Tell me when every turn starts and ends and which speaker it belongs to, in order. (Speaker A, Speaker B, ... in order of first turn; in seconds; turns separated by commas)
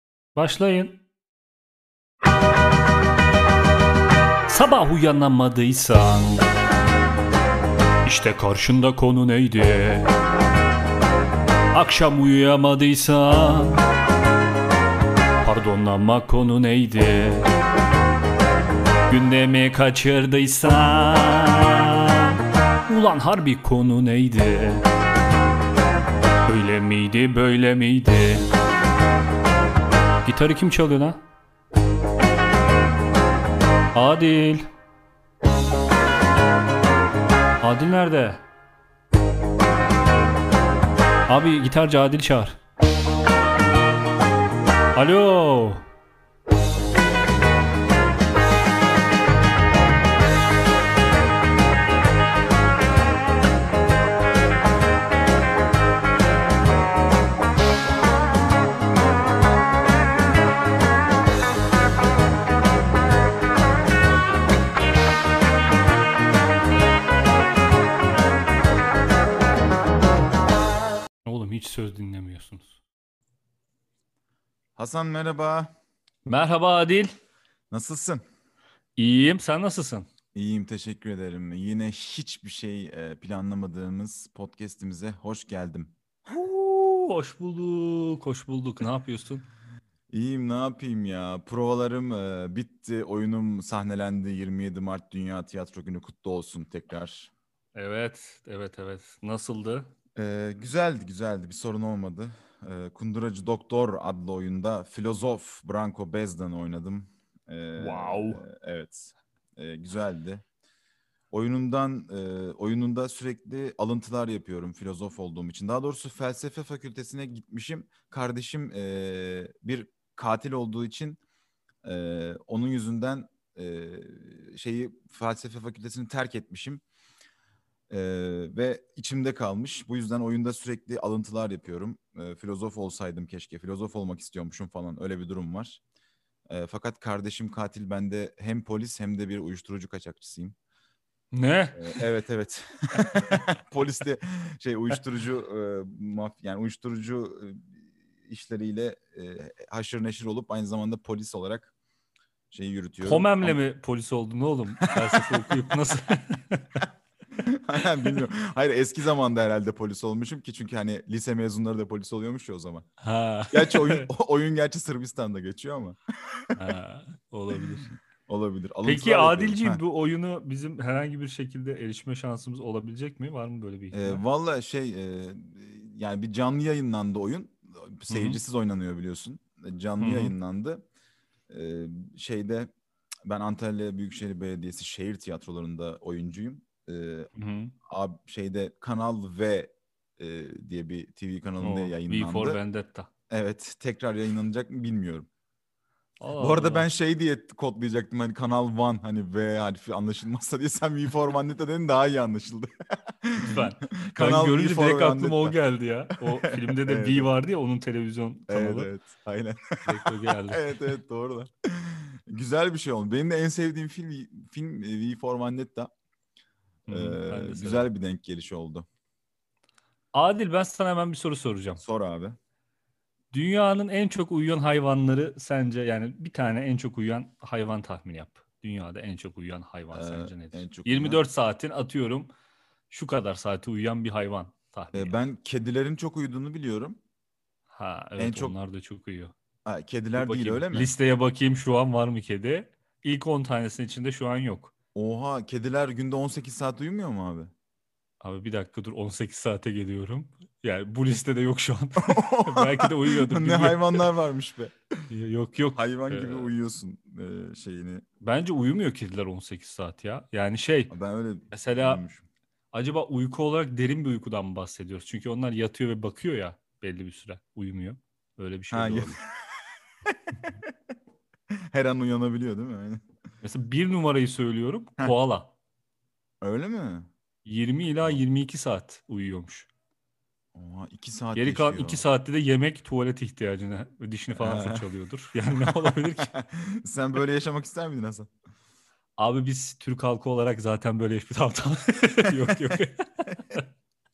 Speaker A: 0.3-1.0, Speaker A: 4.5-6.5, Speaker A: 8.0-10.1, Speaker A: 11.7-13.8, Speaker A: 15.4-17.5, Speaker A: 19.1-22.3, Speaker A: 22.9-24.8, Speaker A: 26.4-28.5, Speaker A: 30.2-31.2, Speaker A: 33.9-34.7, Speaker A: 37.6-38.4, Speaker A: 41.3-42.6, Speaker A: 44.9-45.8, Speaker A: 71.2-72.8, Speaker B: 74.8-75.7, Speaker A: 76.2-77.1, Speaker B: 77.7-78.2, Speaker A: 79.0-80.1, Speaker B: 80.3-85.9, Speaker A: 86.3-89.5, Speaker B: 90.1-97.3, Speaker A: 97.7-99.9, Speaker B: 100.2-110.4, Speaker A: 107.8-108.4, Speaker B: 111.3-121.2, Speaker B: 121.8-126.8, Speaker B: 127.9-135.8, Speaker B: 136.5-140.5, Speaker A: 141.3-142.0, Speaker B: 141.8-147.7, Speaker A: 143.3-143.5, Speaker B: 148.2-151.7, Speaker B: 152.5-153.6, Speaker A: 153.0-156.8, Speaker B: 154.8-155.6, Speaker B: 157.3-162.9, Speaker A: 163.0-164.1, Speaker B: 163.5-166.5, Speaker A: 166.5-167.9, Speaker B: 168.3-169.8, Speaker A: 168.8-174.2, Speaker B: 173.9-180.8, Speaker A: 178.1-178.4, Speaker A: 180.0-180.3, Speaker B: 181.5-182.7, Speaker B: 183.2-187.3, Speaker A: 187.3-187.7, Speaker B: 187.8-192.6, Speaker A: 191.6-193.1, Speaker B: 193.3-195.3, Speaker A: 196.2-196.9, Speaker B: 196.4-205.6, Speaker A: 203.3-208.9, Speaker B: 206.4-207.3, Speaker B: 208.5-215.9, Speaker A: 209.8-210.8, Speaker A: 216.9-217.9, Speaker B: 216.9-218.8, Speaker A: 220.1-221.8, Speaker B: 221.8-222.4, Speaker A: 223.3-232.3, Speaker B: 229.9-231.2, Speaker A: 232.9-235.1, Speaker B: 234.9-237.0, Speaker A: 237.7-239.3, Speaker B: 238.2-238.5, Speaker B: 239.7-240.9, Speaker A: 240.1-244.7, Speaker B: 244.9-247.5, Speaker A: 248.2-254.1, Speaker B: 252.0-254.8, Speaker A: 255.1-256.5, Speaker B: 255.7-258.0, Speaker A: 258.2-260.9, Speaker B: 260.9-262.2, Speaker A: 261.5-262.0, Speaker A: 262.7-269.2, Speaker B: 268.7-269.5, Speaker B: 270.1-270.7, Speaker B: 271.7-273.0, Speaker A: 273.4-275.5, Speaker B: 276.4-277.1, Speaker A: 277.4-279.7, Speaker B: 280.5-282.0, Speaker A: 281.4-286.3, Speaker B: 284.3-284.9, Speaker B: 285.5-288.3, Speaker A: 289.2-293.6, Speaker B: 292.2-292.8